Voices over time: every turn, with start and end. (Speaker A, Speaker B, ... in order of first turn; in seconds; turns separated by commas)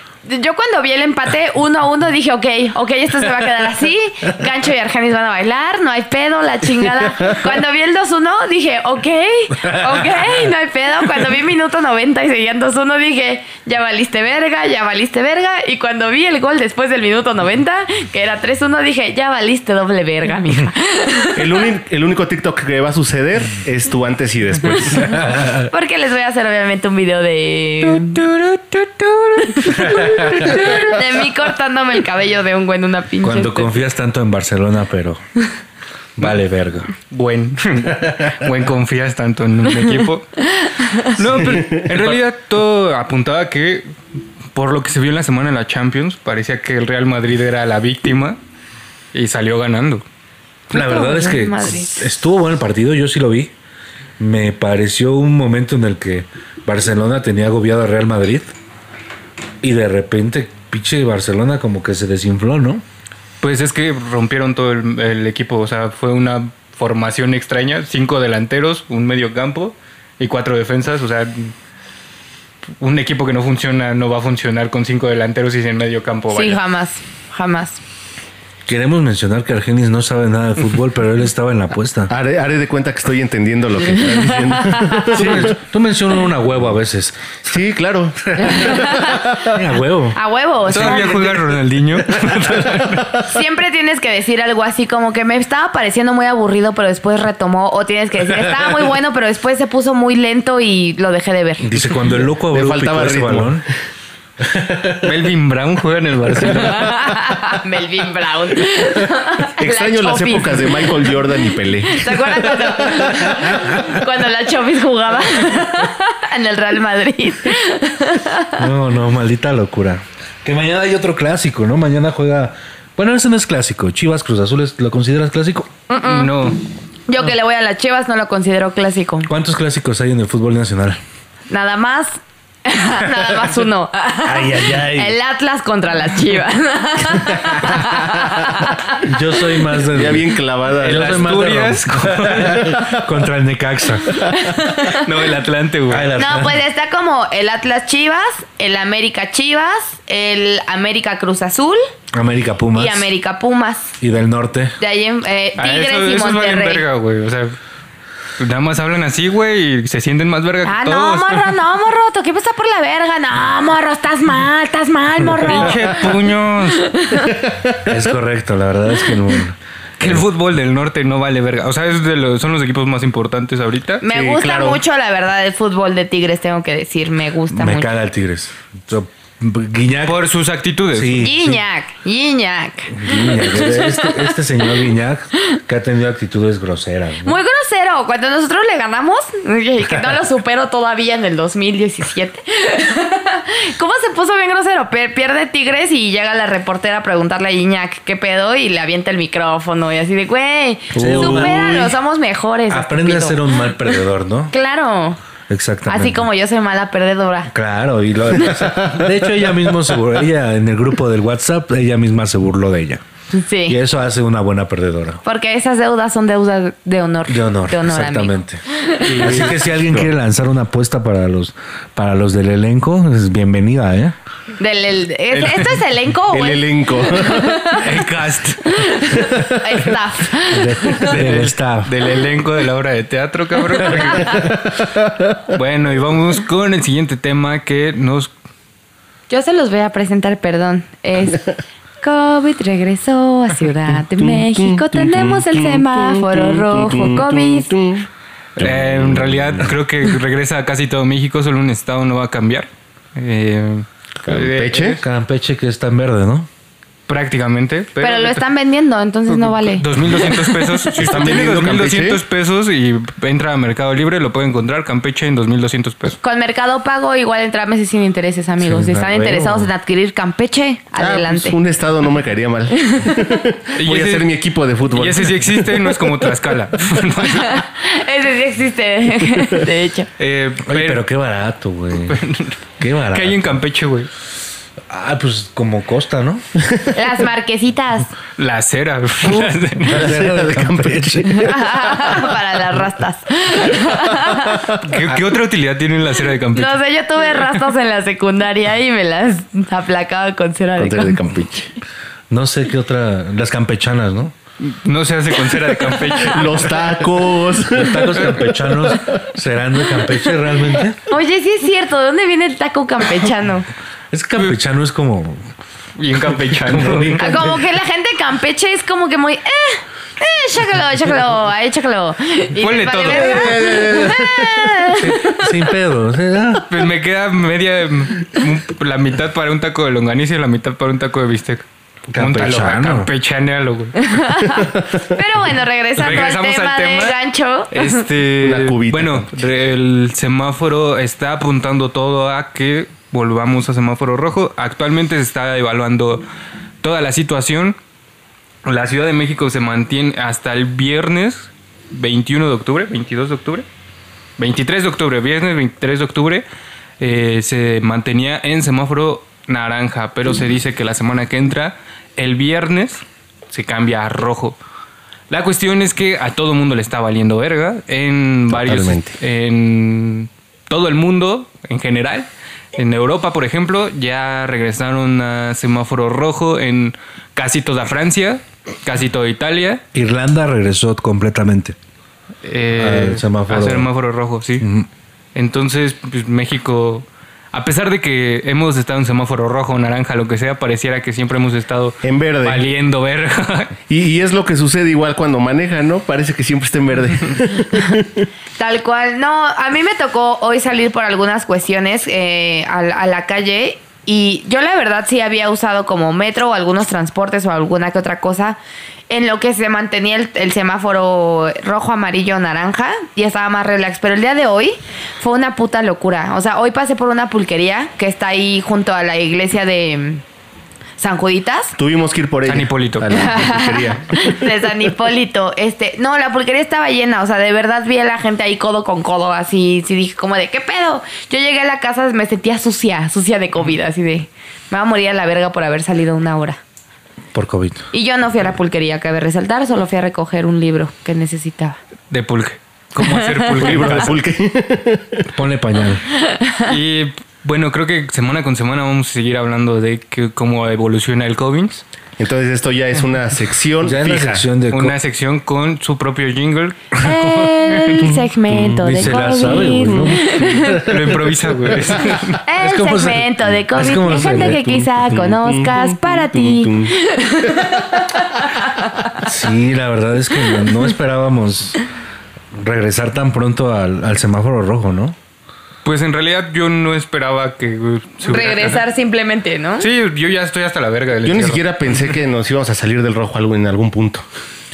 Speaker A: 0.2-21.7, Speaker B: 9.6-10.3, Speaker C: 21.3-25.1, Speaker B: 25.0-25.7, Speaker A: 25.7-28.3, Speaker D: 27.8-29.7, Speaker A: 29.4-33.7, Speaker B: 29.7-30.7, Speaker D: 30.4-30.7, Speaker B: 33.2-35.2, Speaker B: 36.2-36.9, Speaker D: 36.9-40.4, Speaker A: 40.5-41.1, Speaker D: 41.0-43.9, Speaker C: 41.3-42.1, Speaker D: 44.5-48.4, Speaker D: 49.1-50.0, Speaker A: 50.7-52.1, Speaker B: 50.7-53.5, Speaker B: 54.2-58.5, Speaker B: 59.6-62.8, Speaker D: 63.4-71.5, Speaker D: 72.8-76.6, Speaker A: 76.3-77.8, Speaker B: 78.7-82.1, Speaker C: 82.1-85.5, Speaker A: 84.1-85.0, Speaker B: 85.1-87.4, Speaker C: 87.4-89.4, Speaker A: 88.4-89.4, Speaker B: 89.4-90.2, Speaker A: 90.1-91.4, Speaker D: 90.7-93.2, Speaker B: 90.7-91.1, Speaker A: 93.2-101.8, Speaker B: 101.6-103.6, Speaker C: 102.4-103.6, Speaker B: 104.4-105.0, Speaker D: 105.0-107.0, Speaker A: 106.6-111.2, Speaker C: 109.6-112.5, Speaker A: 111.8-118.6, Speaker B: 113.5-113.8, Speaker B: 118.5-125.7, Speaker A: 125.9-126.6, Speaker D: 126.0-126.6, Speaker A: 127.1-129.3, Speaker B: 129.3-131.0, Speaker A: 131.5-139.1, Speaker B: 134.2-135.1, Speaker B: 139.0-140.3, Speaker C: 139.9-141.2, Speaker B: 140.8-144.3, Speaker D: 140.8-142.8, Speaker A: 144.1-145.2, Speaker D: 144.8-146.1, Speaker B: 145.9-146.6, Speaker A: 146.2-151.8, Speaker B: 152.1-153.1, Speaker A: 152.7-153.9, Speaker B: 154.0-154.8, Speaker A: 154.8-156.8, Speaker D: 155.6-157.6, Speaker D: 158.4-161.5, Speaker A: 160.6-166.1, Speaker D: 165.4-166.9, Speaker A: 166.8-167.4, Speaker B: 167.8-170.2, Speaker D: 170.0-174.0, Speaker A: 174.0-177.9, Speaker C: 174.0-174.8, Speaker B: 177.5-180.2, Speaker D: 180.1-181.3, Speaker B: 180.9-181.6, Speaker A: 181.2-184.4, Speaker B: 182.9-187.4, Speaker A: 187.2-203.7, Speaker C: 200.9-201.7, Speaker B: 200.9-202.0, Speaker B: 202.7-204.5, Speaker A: 204.5-205.2, Speaker B: 205.5-206.2, Speaker A: 205.9-207.5, Speaker B: 207.5-213.0, Speaker A: 213.3-213.8, Speaker B: 213.7-215.2, Speaker A: 215.2-219.4, Speaker B: 217.3-218.6, Speaker D: 219.0-219.6, Speaker B: 219.2-224.1, Speaker C: 219.7-220.1, Speaker A: 224.6-228.1, Speaker D: 225.3-225.8, Speaker C: 226.3-227.7, Speaker D: 227.7-229.1, Speaker A: 228.7-231.1, Speaker B: 229.2-229.6, Speaker B: 230.5-231.9, Speaker D: 230.9-234.6, Speaker A: 234.0-234.4, Speaker D: 235.5-238.3, Speaker A: 239.3-241.5, Speaker A: 242.0-247.7, Speaker C: 244.2-248.1, Speaker D: 248.6-255.0, Speaker B: 248.6-249.7, Speaker C: 254.2-255.0, Speaker B: 255.0-256.5, Speaker D: 257.1-258.4, Speaker A: 258.0-259.9, Speaker D: 259.3-266.2, Speaker B: 260.9-261.7, Speaker C: 261.0-262.2, Speaker A: 266.2-271.6, Speaker B: 268.6-269.7, Speaker C: 271.0-275.7, Speaker A: 272.9-273.4, Speaker D: 273.8-274.3, Speaker D: 274.9-277.6, Speaker A: 277.3-280.1, Speaker D: 280.2-281.0, Speaker B: 280.6-282.2, Speaker D: 282.1-282.6, Speaker B: 282.8-283.5, Speaker D: 283.1-284.1, Speaker B: 284.9-286.4, Speaker A: 286.9-288.1, Speaker D: 288.4-290.1, Speaker C: 289.3-292.2, Speaker B: 289.9-291.5, Speaker A: 291.3-294.7, Speaker D: 294.8-297.6, Speaker A: 296.5-301.3, Speaker C: 300.8-301.7, Speaker B: 302.3-304.3, Speaker D: 304.6-306.7, Speaker C: 306.1-308.5, Speaker B: 307.7-311.0, Speaker A: 311.1-313.7, Speaker B: 314.1-315.5, Speaker D: 316.0-317.2, Speaker B: 316.3-317.6, Speaker A: 317.2-325.7, Speaker D: 322.6-323.8, Speaker C: 323.1-324.9, Speaker B: 324.9-326.7, Speaker D: 326.7-331.6, Speaker B: 332.1-333.1, Speaker D: 332.2-334.2, Speaker A: 334.0-338.0, Speaker D: 335.9-337.2, Speaker D: 337.7-346.2, Speaker C: 338.4-339.4, Speaker D: 346.8-347.8, Speaker D: 348.6-353.6, Speaker D: 354.4-356.4, Speaker D: 357.0-364.6, Speaker D: 365.3-379.8, Speaker C: 368.5-369.1, Speaker B: 379.9-381.8, Speaker D: 382.4-384.6, Speaker B: 382.8-383.9, Speaker B: 384.6-384.9, Speaker D: 385.3-393.7, Speaker C: 392.0-392.6, Speaker C: 393.9-398.3, Speaker A: 398.6-408.6, Speaker A: 409.1-420.2, Speaker A: 421.0-421.7, Speaker C: 421.8-424.4, Speaker D: 422.4-423.1, Speaker A: 423.1-436.6, Speaker B: 437.3-437.8, Speaker A: 437.9-441.8, Speaker D: 442.1-444.1, Speaker A: 443.0-443.9, Speaker C: 443.5-445.3, Speaker B: 445.3-446.0, Speaker A: 446.2-446.7, Speaker D: 446.6-451.8, Speaker C: 452.2-454.5, Speaker B: 453.8-454.9, Speaker D: 454.7-458.1, Speaker A: 456.9-460.9, Speaker C: 458.5-460.1, Speaker B: 458.8-461.1, Speaker D: 460.7-462.4, Speaker B: 462.3-464.9, Speaker A: 462.4-468.4, Speaker C: 464.2-466.9, Speaker B: 469.2-471.8, Speaker B: 472.5-475.1, Speaker D: 475.8-478.8, Speaker A: 478.2-479.9, Speaker D: 479.8-481.9, Speaker C: 481.2-484.2